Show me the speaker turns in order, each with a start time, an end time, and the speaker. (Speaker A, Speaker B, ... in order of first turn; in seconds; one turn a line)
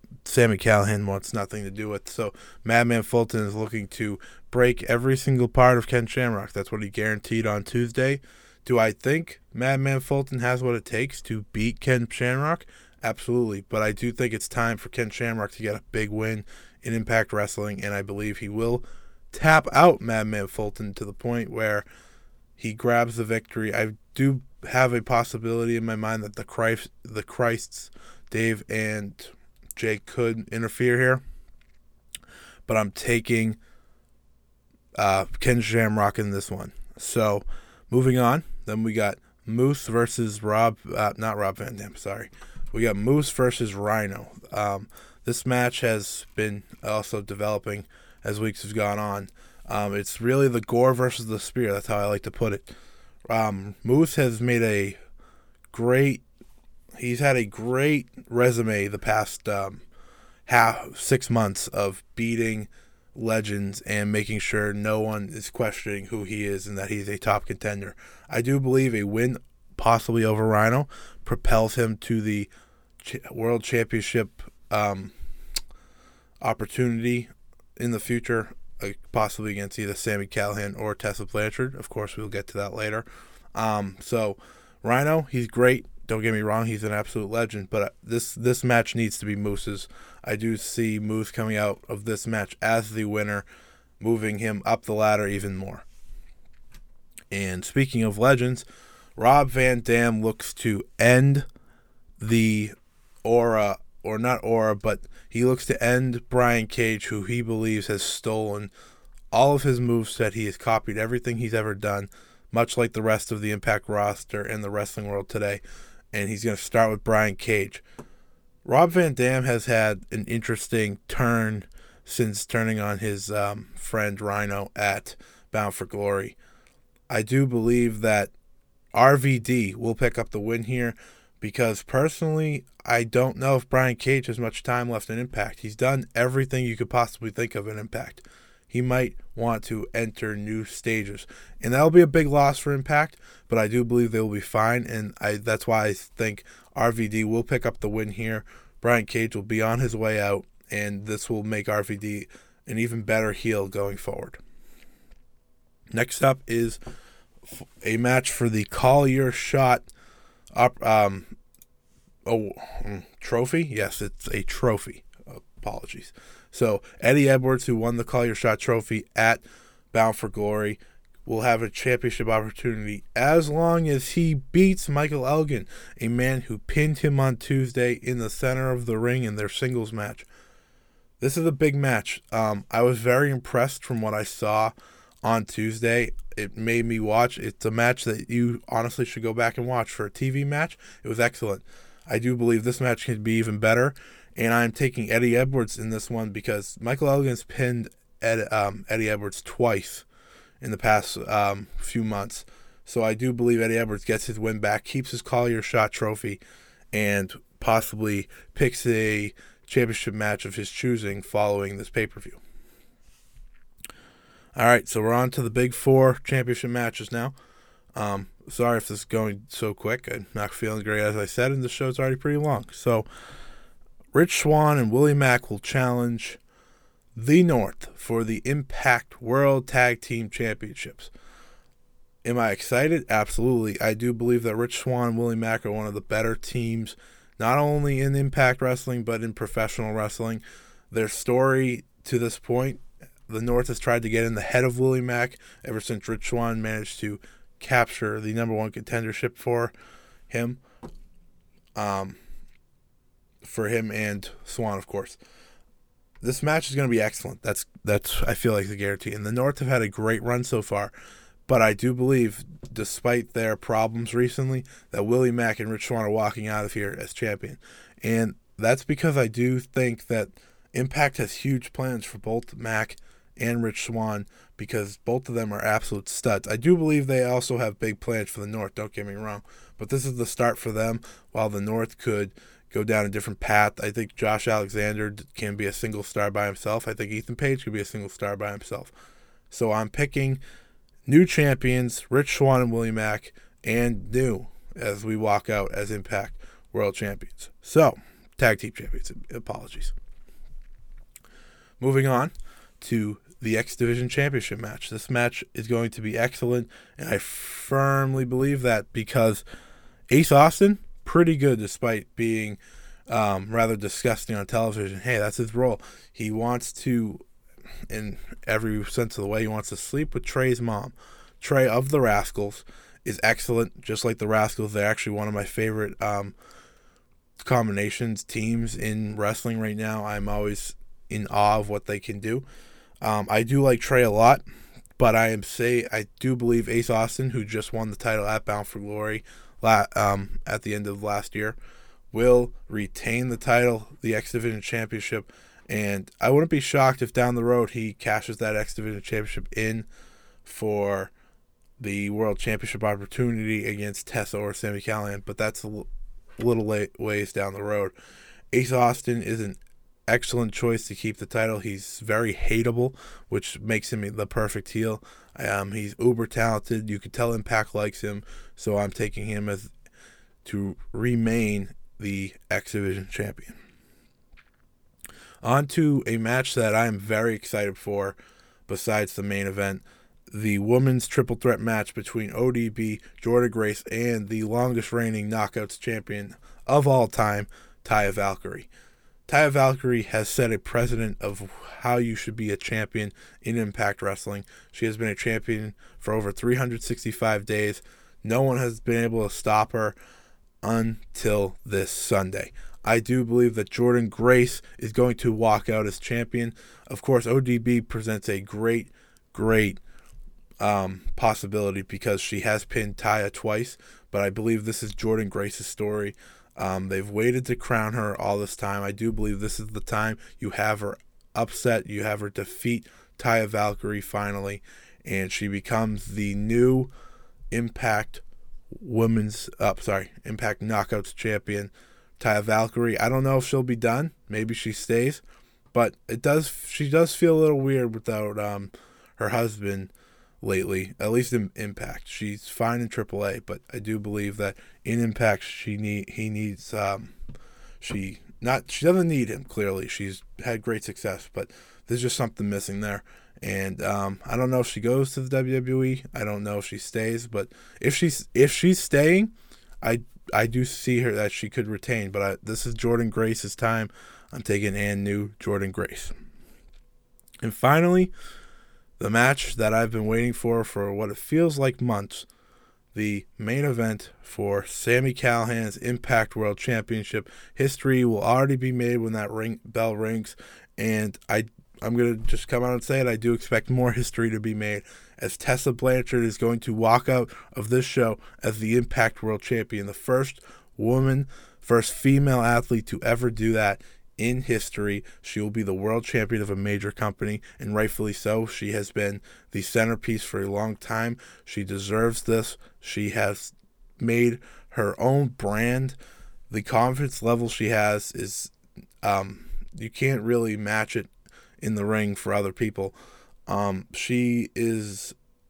Speaker A: 0.2-21.9
Speaker A: 22.6-31.2
Speaker A: 32.7-33.6
Speaker A: 35.0-52.7
Speaker A: 53.3-55.0
Speaker A: 55.7-56.2
Speaker A: 57.0-59.8
Speaker A: 60.5-72.5
Speaker A: 73.0-75.1
Speaker A: 76.4-93.5
Speaker A: 94.0-95.8
Speaker A: 97.3-101.5
Speaker A: 102.2-108.7
Speaker A: 109.3-115.6
Speaker A: 116.1-117.8
Speaker A: 118.6-126.4
Speaker A: 127.1-128.3
Speaker A: 128.9-154.4
Speaker A: 155.9-156.8
Speaker A: 157.5-159.9
Speaker A: 160.5-161.3
Speaker A: 162.2-180.3
Speaker A: 181.2-200.1
Speaker A: 200.6-206.4
Speaker A: 206.9-212.4
Speaker A: 214.5-217.3
Speaker A: 217.9-223.1
Speaker A: 224.1-226.4
Speaker A: 227.1-231.1
Speaker A: 232.2-249.7
Speaker A: 250.3-250.6
Speaker A: 251.8-252.2
Speaker A: 253.4-255.2
Speaker A: 256.2-260.9
Speaker A: 261.5-288.9
Speaker A: 289.5-290.4
Speaker A: 291.1-299.9
Speaker A: 301.8-309.4
Speaker A: 310.1-317.2
Speaker A: 317.9-326.4
Speaker A: 327.4-332.4
Speaker A: 333.0-334.4
Speaker A: 335.0-341.6
Speaker A: 342.1-349.9
Speaker A: 350.4-351.1
Speaker A: 351.8-357.9
Speaker A: 358.5-369.7
Speaker A: 370.4-373.6
Speaker A: 375.4-378.2
Speaker A: 378.7-388.7
Speaker A: 389.3-400.0
Speaker A: 400.6-409.8
Speaker A: 410.6-426.9
Speaker A: 427.5-435.2
Speaker A: 435.7-439.9
Speaker A: 440.4-447.1
Speaker A: 447.8-466.1
Speaker A: 467.4-468.1
Speaker A: 469.0-472.3
Speaker A: 472.9-506.0
Speaker A: 506.5-513.0
Speaker A: 513.5-515.1